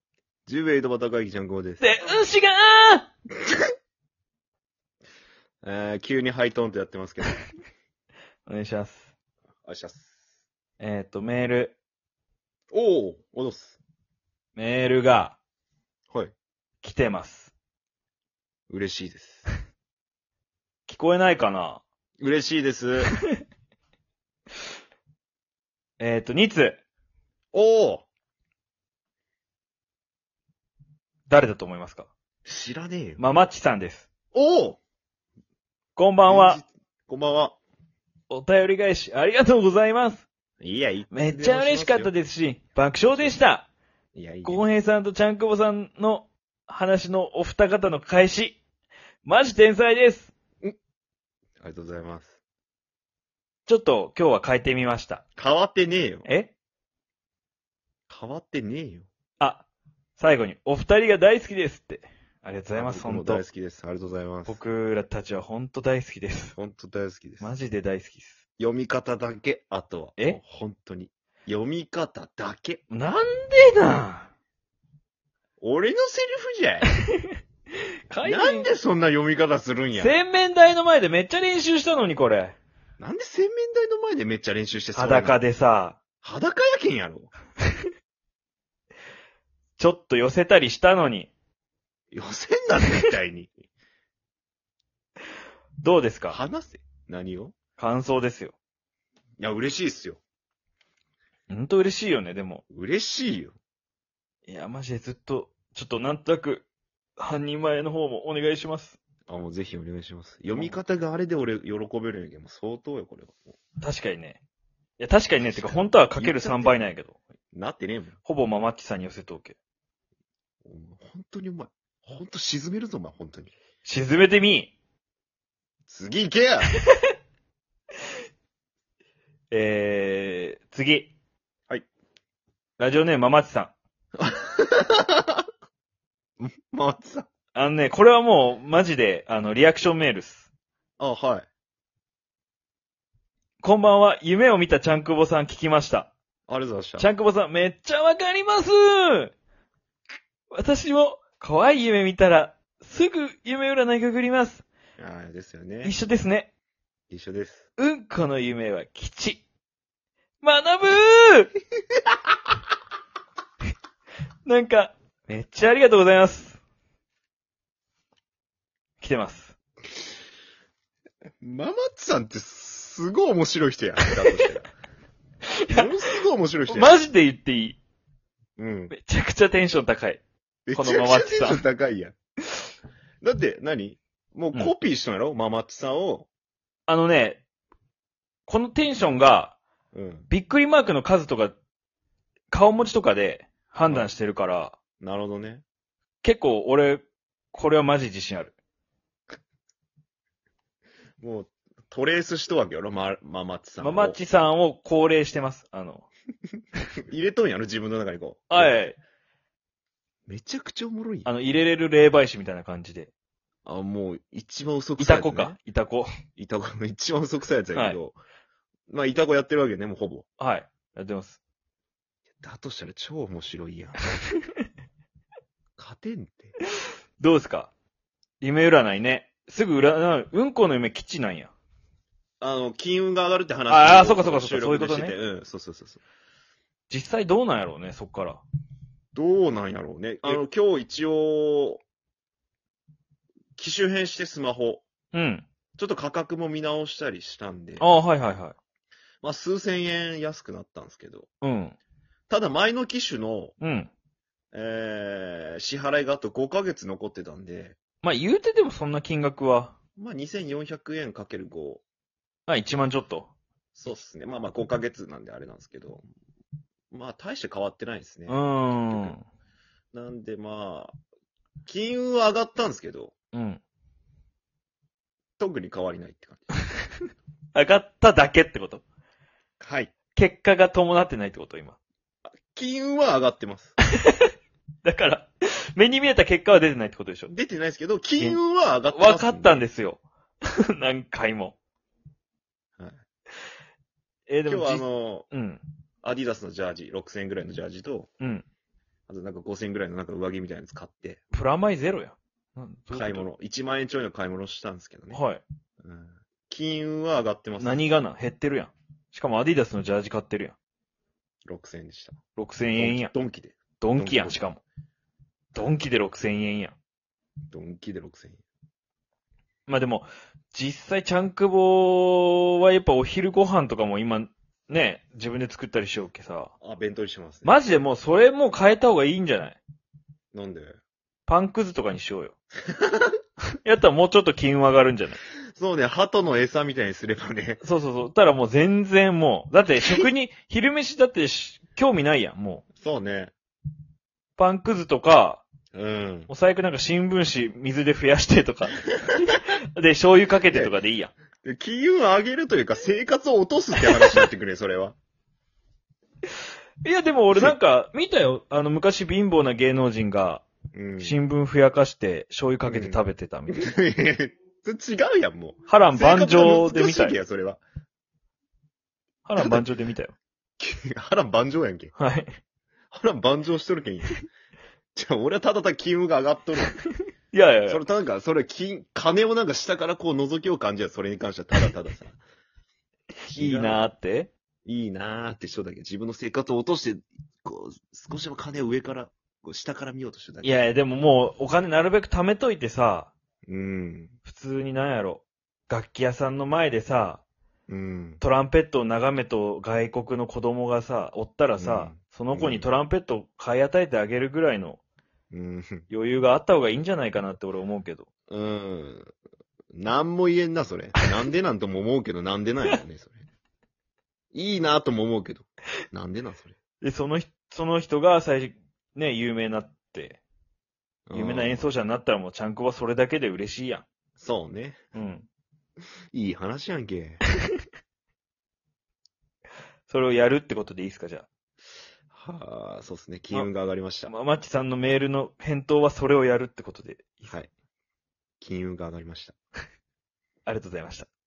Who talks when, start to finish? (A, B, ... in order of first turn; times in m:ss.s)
0:00.5-0:01.9 A
0:01.8-0:03.1 B
0:05.6-0:07.4 A
0:08.5-0:09.1 B
0:09.6-0:10.1 A
0:10.8-0:11.8 B
0:12.7-0:13.8 A
0:14.6-0:15.4 B
0:16.8-0:17.5 B
0:18.7-0:19.4 A
0:20.9-0:21.8 B
0:22.2-0:23.1 A
0:26.0-0:26.8 B
0:27.5-0:28.0 A
0:31.3-0:32.1 B
0:32.4-0:33.2 A
0:33.2-0:34.1 B
0:34.3-0:34.8 A
0:36.0-0:36.6 B
0:36.3-0:37.6 A
0:38.3-0:40.3 B
0:40.6-0:42.1 A
0:41.1-0:43.7 B
0:43.1-0:43.4 A
0:44.1-0:44.7 A
0:44.4-0:48.6 B
0:49.2-0:50.3 B
0:51.6-0:52.4 A
0:53.7-0:55.2 B
0:55.4-0:56.3 A
0:56.2-0:56.5 B
0:58.1-0:59.1 A
0:59.4-0:59.7 B
1:00.2-1:03.4 B
1:02.7-1:04.6 A
1:04.5-1:06.6 B
1:06.6-1:07.5 A
1:07.4-1:08.4 B
1:08.6-1:12.8 A
1:12.9-1:14.3 B
1:15.6-1:16.9 A
1:18.1-1:18.7 B
1:18.2-1:20.2 A
1:20.0-1:22.6 B
1:23.0-1:25.4 A
1:25.0-1:26.0 B
1:26.2-1:27.3 A
1:29.8-1:31.3 B
1:32.1-1:33.5 A
1:35.8-1:36.4 B
1:36.3-1:37.6 A
1:37.8-1:38.6 B
1:39.4-1:40.2 A
1:41.5-1:42.6 B
1:42.7-1:43.6 A
1:44.5-1:49.0 B
1:49.3-1:53.5 A
1:50.5-1:50.8 B
1:53.8-1:54.4 B
1:55.0-1:57.2 B
1:55.4-1:56.8 A
1:57.5-1:58.2 A
1:58.2-1:59.6 B
2:00.6-2:03.5 A
2:03.8-2:04.7 B
2:05.9-2:06.7 A
2:09.5-2:11.1 B
2:12.8-2:13.8 B
2:14.2-2:15.4 A
2:16.4-2:17.3 A
2:17.5-2:20.5 B
2:21.0-2:21.5 A
2:23.6-2:26.1 B
2:26.5-2:27.1 A
2:27.0-2:29.3 B
2:30.5-2:34.6 B
2:35.0-2:36.0 A
2:35.8-2:36.5 B
2:37.1-2:37.7 A
2:37.8-2:39.4 B
2:40.4-2:41.5 B
2:44.4-2:46.6 B
2:49.0-2:49.5 B
2:51.4-2:54.7 A
2:55.6-2:55.9 B
2:55.7-2:57.0 A
2:56.7-2:57.8 B
2:58.6-2:59.0 A
2:58.9-3:00.2 B
3:00.7-3:02.1 A
3:00.7-3:01.6 B
3:03.2-3:06.3 A
3:06.9-3:07.4 B
3:08.5-3:09.6 B
3:09.9-3:10.3 A
3:10.3-3:11.6 B
3:12.5-3:14.8 B
3:15.0-3:15.6 A
3:16.2-3:18.6 B
3:21.2-3:24.2 A
3:23.8-3:26.1 B
3:27.1-3:28.9 A
3:28.5-3:29.0 B
3:30.3-3:31.3 A
3:31.3-3:33.1 B
3:33.6-3:35.6 A
3:35.0-3:36.1 B
3:36.4-3:38.2 A
3:37.7-3:38.0 B
3:38.9-3:40.3 A
3:40.4-3:41.4 B
3:42.4-3:44.1 A
3:45.8-3:46.6 A
3:47.2-3:47.7 B
3:48.4-3:51.5 B
3:52.4-3:56.0 A
3:53.7-3:55.2 B
3:56.9-3:58.4 B
3:59.1-4:01.8 A
4:03.6-4:04.8 A
4:05.1-4:05.5 B
4:05.8-4:07.9 A
4:07.8-4:08.6 B
4:09.2-4:11.3 A
4:11.4-4:11.8 B
4:12.3-4:13.5 A
4:13.6-4:13.9 B
4:14.5-4:17.8 A
4:18.0-4:19.8 B
4:20.0-4:21.8 A
4:22.5-4:23.3 B
4:23.8-4:26.0 A
4:26.9-4:29.2 A
4:28.3-4:29.2 B
4:29.9-4:30.9 A
4:31.7-4:33.2 A
4:33.3-4:33.6 B
4:35.4-4:36.5 A
4:37.6-4:38.8 B
4:39.6-4:39.9 A
4:40.2-4:41.8 B
4:42.3-4:43.8 A
4:44.8-4:47.3 B
4:47.3-4:49.7 A
4:48.2-4:50.0 B
4:50.8-4:51.6 B
4:54.3-4:55.6 B
4:54.5-4:55.3 A
4:56.0-4:58.1 A
4:58.2-4:58.4 B
4:59.1-5:01.2 A
5:01.3-5:03.3 B
5:02.9-5:05.2 A
5:05.1-5:05.4 B
5:05.8-5:07.9 A
5:07.6-5:10.6 B
5:11.4-5:12.2 A
5:12.4-5:13.1 B
5:12.8-5:14.4 A
5:13.8-5:14.6 B
5:15.5-5:16.8 B
5:17.5-5:18.4 A
5:19.7-5:26.5 B
5:26.6-5:27.6 A
5:27.4-5:29.6 B
5:30.3-5:30.8 A
5:31.3-5:32.3 B
5:32.7-5:33.1 A
5:33.6-5:35.2 B
5:35.5-5:37.6 A
5:37.6-5:42.7 B
5:42.8-5:43.3 A
5:44.4-5:45.4 B
5:45.7-5:46.3 A
5:46.3-5:51.1 B
5:51.4-5:55.0 A
5:56.8-6:00.4 B
6:00.7-6:01.2 A
6:01.0-6:03.8 B
6:02.7-6:03.0 A
6:03.5-6:07.6 A
6:05.7-6:07.2 B
6:09.2-6:10.2 B
6:09.4-6:09.6 A
6:10.6-6:11.9 A
6:12.0-6:12.3 B
6:12.9-6:14.2 A
6:15.0-6:16.8 A
6:17.3-6:17.8 B
6:17.7-6:22.2 A
6:23.3-6:23.9 A
6:23.3-6:24.3 B
6:24.7-6:30.6 A
6:30.4-6:33.1 B
6:33.5-6:34.2 A
6:34.2-6:37.2 B
6:37.7-6:38.2 A
6:38.2-6:44.8 B
6:41.6-6:42.7 A
6:45.3-6:45.9 A
6:45.9-6:48.1 B
6:48.3-6:49.1 A
6:49.7-6:53.2 A
6:54.3-6:56.6 A
6:56.8-7:00.2 B
7:01.1-7:01.7 A
7:01.1-7:03.8 B
7:04.2-7:04.8 A
7:05.0-7:05.3 B
7:06.1-7:07.2 A
7:09.9-7:11.3 B
7:12.1-7:14.1 A
7:14.0-7:17.3 B
7:18.4-7:19.4 A
7:20.4-7:21.1 B